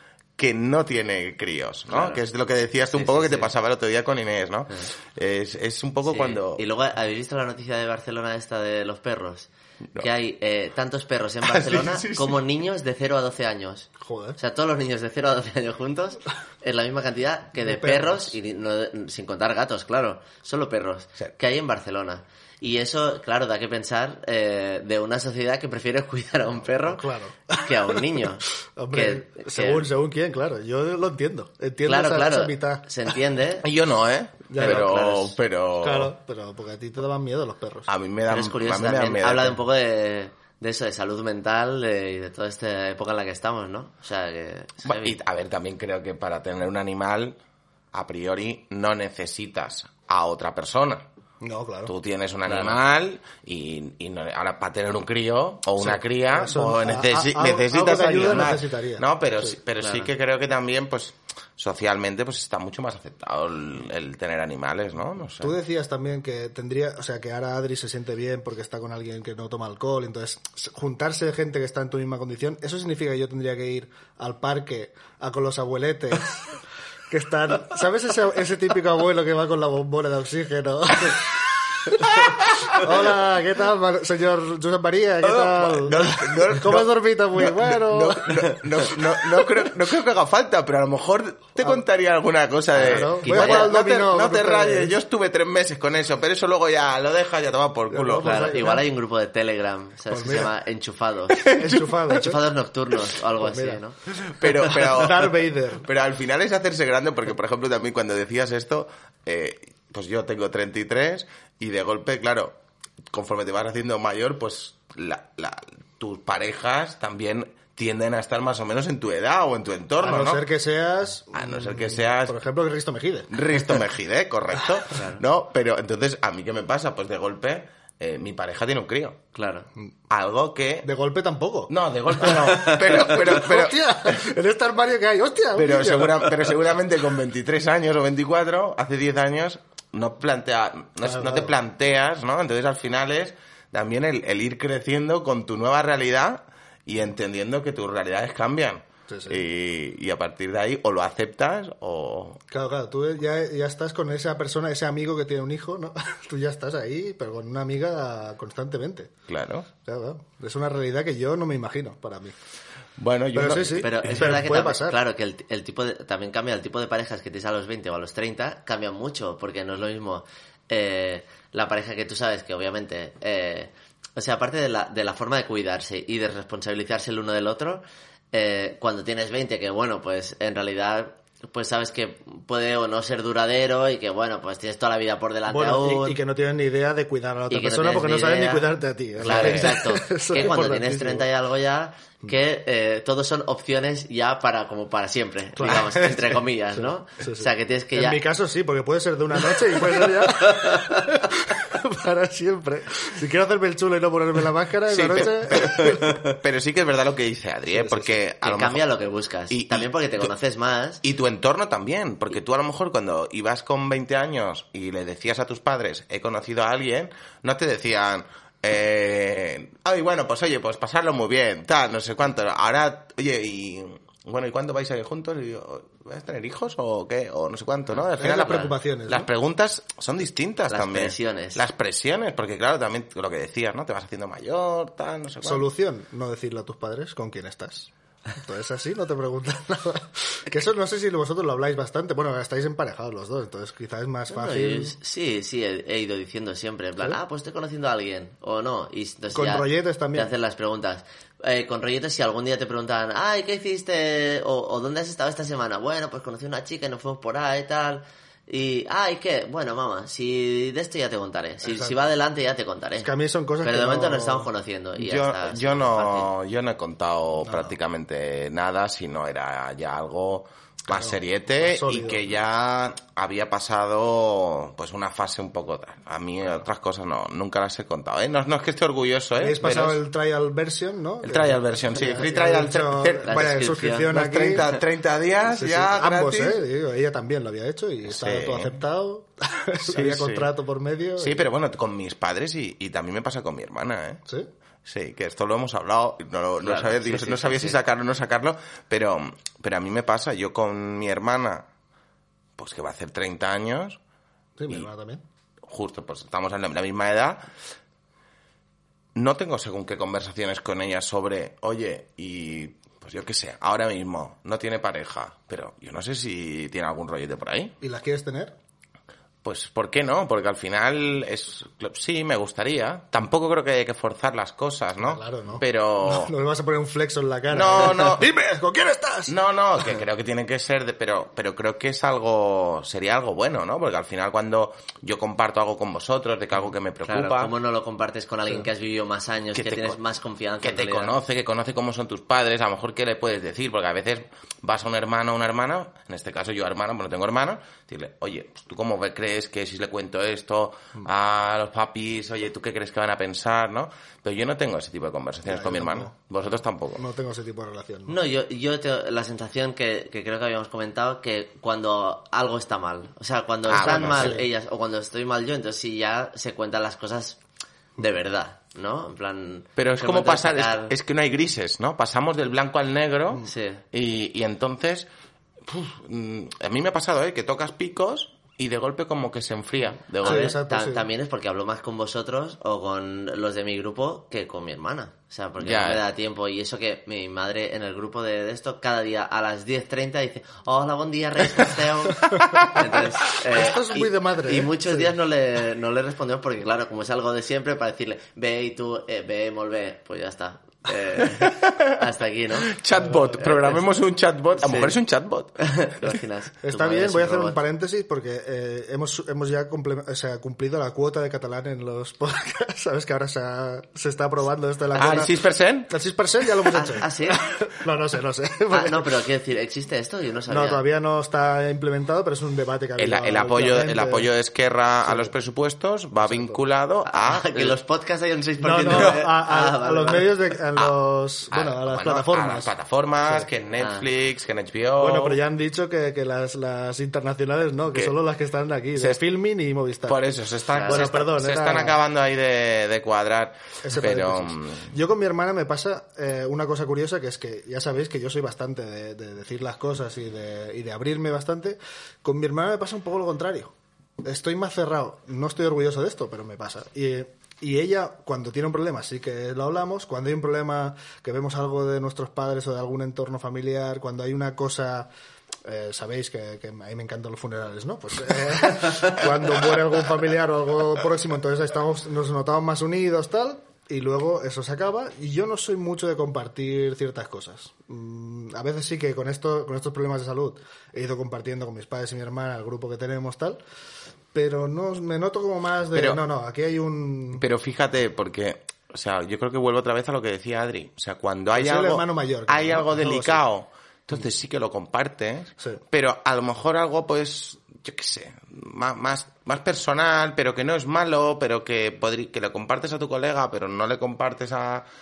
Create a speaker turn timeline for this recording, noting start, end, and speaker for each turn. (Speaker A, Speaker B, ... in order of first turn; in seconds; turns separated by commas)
Speaker A: 0.4-6.6, Speaker B: 1.9-2.2, Speaker B: 2.9-3.5, Speaker B: 6.0-29.9, Speaker A: 11.4-12.4, Speaker C: 14.0-14.4, Speaker C: 17.6-18.3, Speaker C: 26.9-28.2, Speaker C: 28.8-32.9, Speaker B: 31.8-33.7, Speaker A: 33.6-36.1, Speaker C: 34.5-34.9, Speaker B: 34.6-35.4, Speaker C: 35.8-37.9, Speaker A: 37.9-39.6, Speaker B: 38.3-45.2, Speaker A: 44.9-47.4, Speaker A: 47.9-51.0, Speaker C: 51.4-51.9, Speaker A: 51.9-65.6, Speaker B: 52.5-52.8, Speaker C: 55.8-59.5, Speaker B: 59.8-60.1, Speaker C: 65.4-76.5, Speaker C: 77.1-81.3, Speaker C: 81.8-88.9, Speaker A: 82.2-82.9, Speaker A: 85.2-98.5, Speaker C: 92.8-95.0, Speaker B: 92.8-93.7, Speaker C: 97.9-98.9, Speaker B: 98.2-101.5, Speaker C: 100.1-100.5, Speaker A: 101.3-101.9, Speaker C: 101.5-102.4, Speaker B: 102.1-104.5, Speaker C: 103.3-103.8, Speaker A: 104.1-112.5, Speaker C: 104.7-105.9, Speaker A: 113.1-120.5, Speaker C: 120.0-123.3, Speaker A: 121.3-122.4, Speaker A: 123.3-129.2, Speaker B: 124.9-125.2, Speaker B: 129.3-129.7, Speaker A: 130.1-130.9, Speaker C: 130.8-136.4, Speaker A: 131.7-134.2, Speaker A: 135.6-152.4, Speaker C: 141.1-141.6, Speaker C: 149.1-149.4, Speaker C: 152.5-159.1, Speaker A: 159.3-159.7, Speaker C: 159.8-162.3, Speaker A: 163.0-163.9, Speaker C: 163.3-165.0, Speaker B: 163.7-186.2, Speaker C: 185.5-191.3, Speaker B: 187.5-198.2, Speaker A: 189.2-189.8, Speaker C: 195.6-206.1, Speaker B: 200.3-201.1, Speaker A: 204.9-208.8, Speaker C: 207.7-208.2, Speaker B: 208.4-211.0, Speaker A: 209.5-210.3, Speaker A: 211.0-235.7, Speaker C: 228.2-229.3, Speaker B: 230.7-231.6, Speaker C: 235.4-244.9, Speaker B: 244.3-263.1, Speaker C: 249.3-250.3, Speaker C: 261.6-262.0, Speaker C: 263.0-264.5, Speaker B: 263.6-266.3, Speaker A: 265.0-280.0, Speaker C: 267.4-267.8, Speaker C: 270.9-272.2, Speaker C: 279.4-284.8, Speaker A: 281.2-286.6, Speaker B: 283.2-284.2, Speaker C: 285.4-291.5, Speaker A: 288.1-288.8, Speaker A: 289.8-290.5, Speaker A: 291.2-294.2, Speaker A: 294.9-301.6, Speaker B: 296.6-297.8, Speaker A: 302.6-304.0, Speaker C: 304.6-305.2, Speaker A: 305.6-307.5, Speaker A: 309.1-317.7, Speaker C: 317.8-318.6, Speaker A: 319.4-326.3, Speaker C: 325.0-329.3, Speaker A: 327.5-328.3, Speaker A: 329.3-337.5, Speaker B: 337.1-341.1, Speaker A: 339.6-340.0, Speaker A: 340.6-357.0, Speaker C: 355.5-356.1, Speaker C: 357.0-358.1, Speaker B: 358.1-367.4, Speaker A: 363.7-364.4, Speaker C: 363.8-364.5, Speaker B: 368.0-370.9, Speaker A: 369.8-375.1, Speaker B: 373.4-373.8, Speaker A: 375.7-380.6, Speaker B: 380.2-402.8, Speaker C: 380.2-381.1, Speaker A: 385.6-386.0, Speaker C: 393.5-395.1, Speaker A: 401.3-402.0, Speaker A: 402.7-406.1, Speaker C: 403.0-403.6, Speaker B: 403.4-403.8, Speaker B: 404.6-405.0, Speaker B: 405.6-407.6, Speaker C: 406.6-419.1, Speaker A: 414.9-415.9, Speaker B: 416.7-417.4, Speaker B: 418.7-420.8, Speaker C: 420.5-424.3, Speaker A: 423.0-427.8, Speaker C: 425.1-425.3, Speaker C: 426.2-426.6, Speaker B: 427.1-430.3, Speaker C: 428.6-432.7, Speaker A: 428.9-429.1, Speaker A: 431.5-435.4, Speaker B: 433.8-434.1, Speaker C: 435.0-440.2, Speaker A: 440.1-444.9, Speaker B: 440.7-441.1, Speaker C: 440.9-442.0, Speaker C: 443.8-465.1, Speaker C: 465.6-483.6, Speaker C: 484.3-487.4, Speaker A: 485.9-486.2, Speaker A: 487.4-504.9, Speaker C: 491.6-493.4